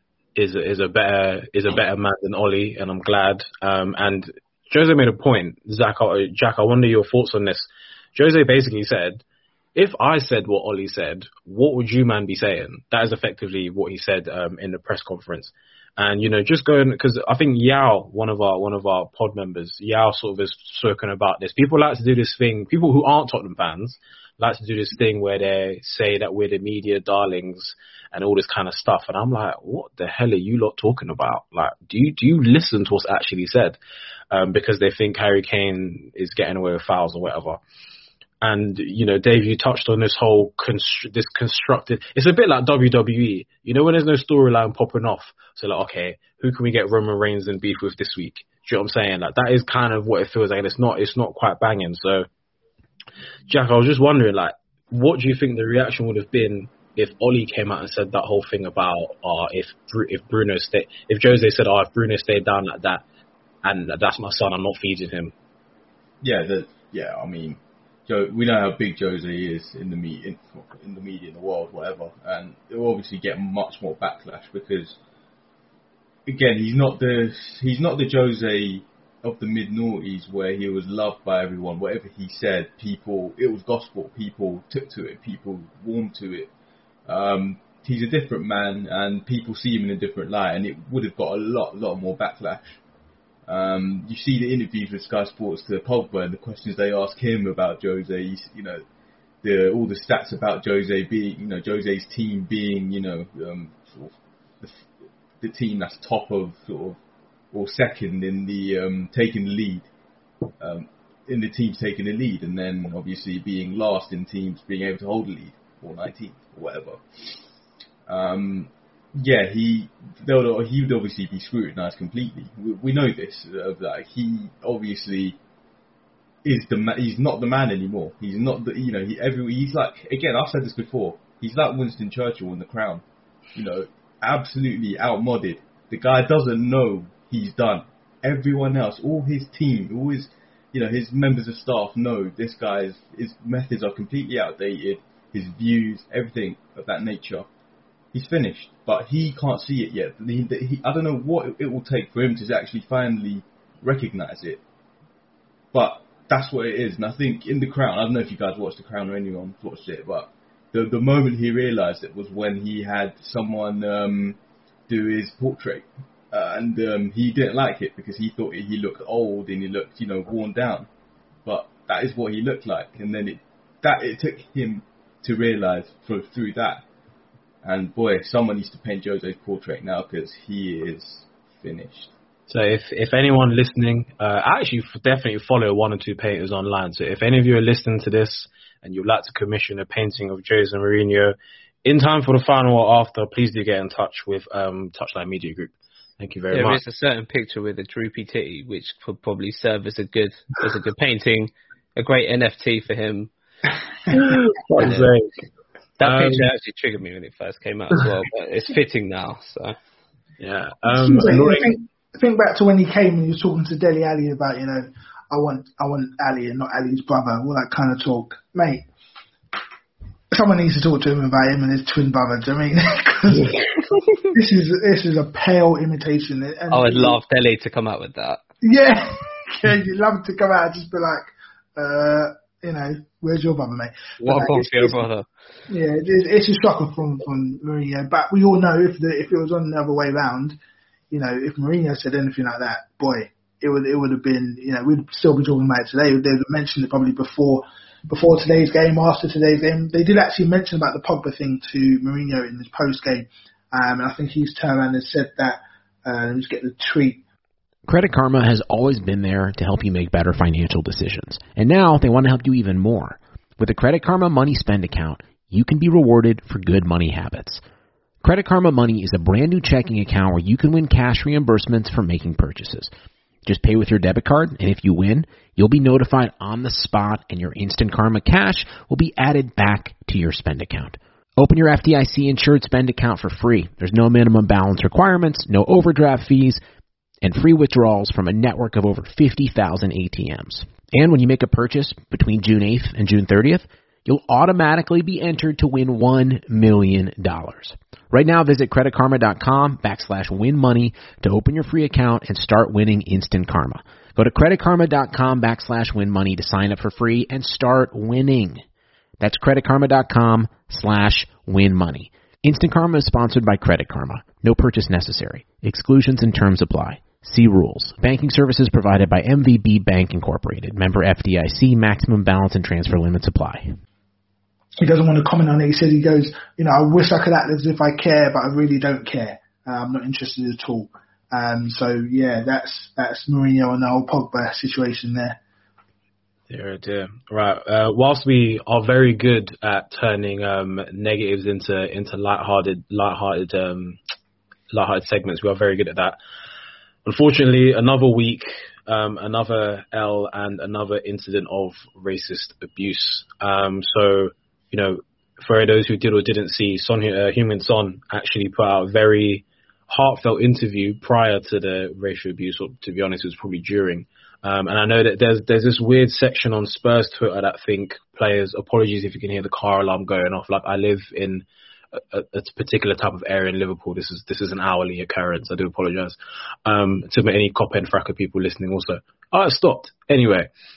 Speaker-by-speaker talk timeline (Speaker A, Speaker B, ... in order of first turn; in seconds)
Speaker A: 0.3-9.2, 9.7-33.8, 34.3-37.6, 38.4-52.3, 53.5-63.0, 63.6-65.3, 182.5-196.8, 204.1-205.3, 206.0-206.5, 210.4-211.7, 336.5-344.0, 344.7-346.2, 347.0-380.5
Speaker B: 66.2-75.0, 76.2-86.5, 87.0-92.6, 93.5-98.8, 99.4-104.8, 105.4-107.0, 107.5-109.9, 110.6-117.0, 118.1-125.4, 126.4-133.0, 133.5-147.5, 148.1-154.6, 155.7-170.9, 171.4-176.8, 177.6-182.1
Speaker C: 196.5-203.3, 204.8-205.1, 206.0-209.8, 226.7-228.4, 234.2-235.2
Speaker D: 210.9-218.9, 220.3-223.6, 224.3-227.2, 228.6-235.1, 235.7-240.6, 241.1-257.2, 324.8-335.4
Speaker E: 257.9-267.6, 268.2-272.9, 273.4-286.6, 287.2-308.6, 309.2-323.8